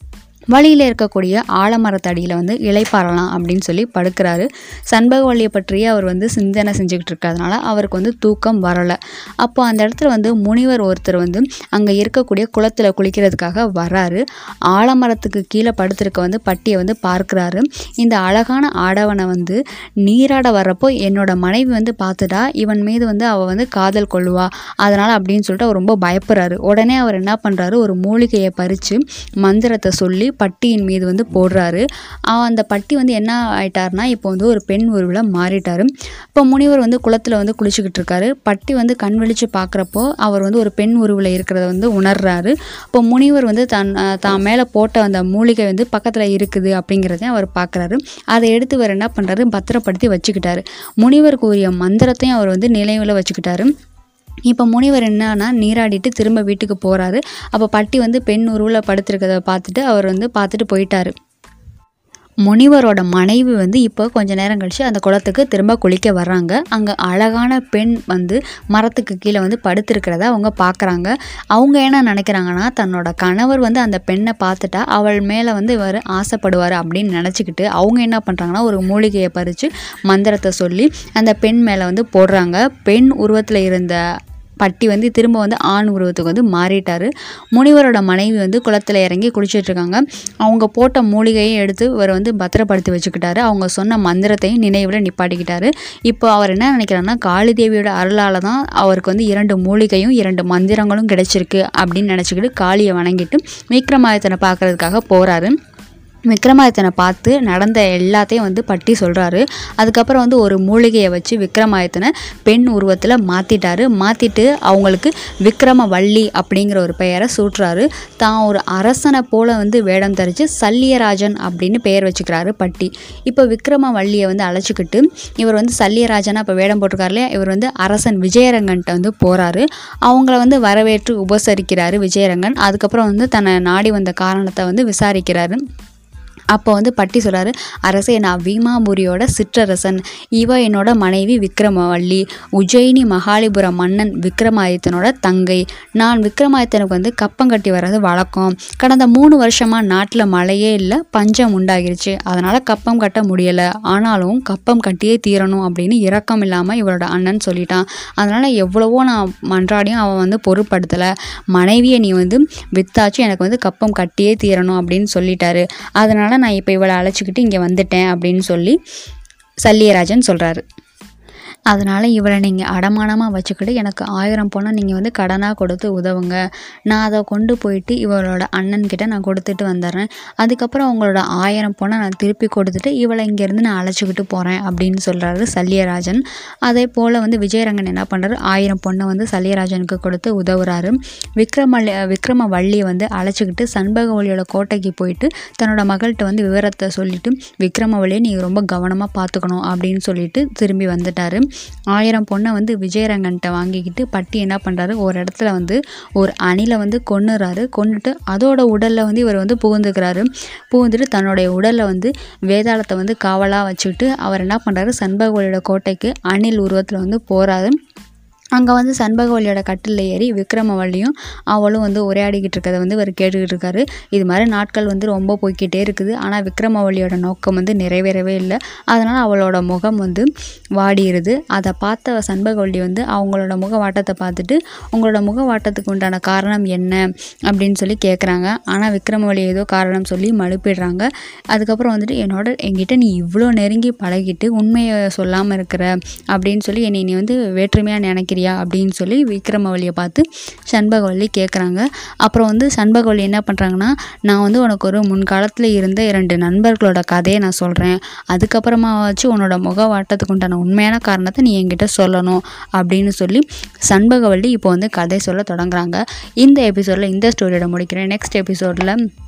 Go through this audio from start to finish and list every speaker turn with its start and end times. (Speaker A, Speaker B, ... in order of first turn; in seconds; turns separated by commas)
Speaker A: 0.5-53.7, Speaker A: 54.5-61.1, Speaker A: 62.5-84.0, Speaker A: 84.6-105.5, Speaker A: 106.3-135.6, Speaker A: 136.5-168.8, Speaker A: 169.6-170.6, Speaker A: 171.7-217.8, Speaker A: 218.6-269.0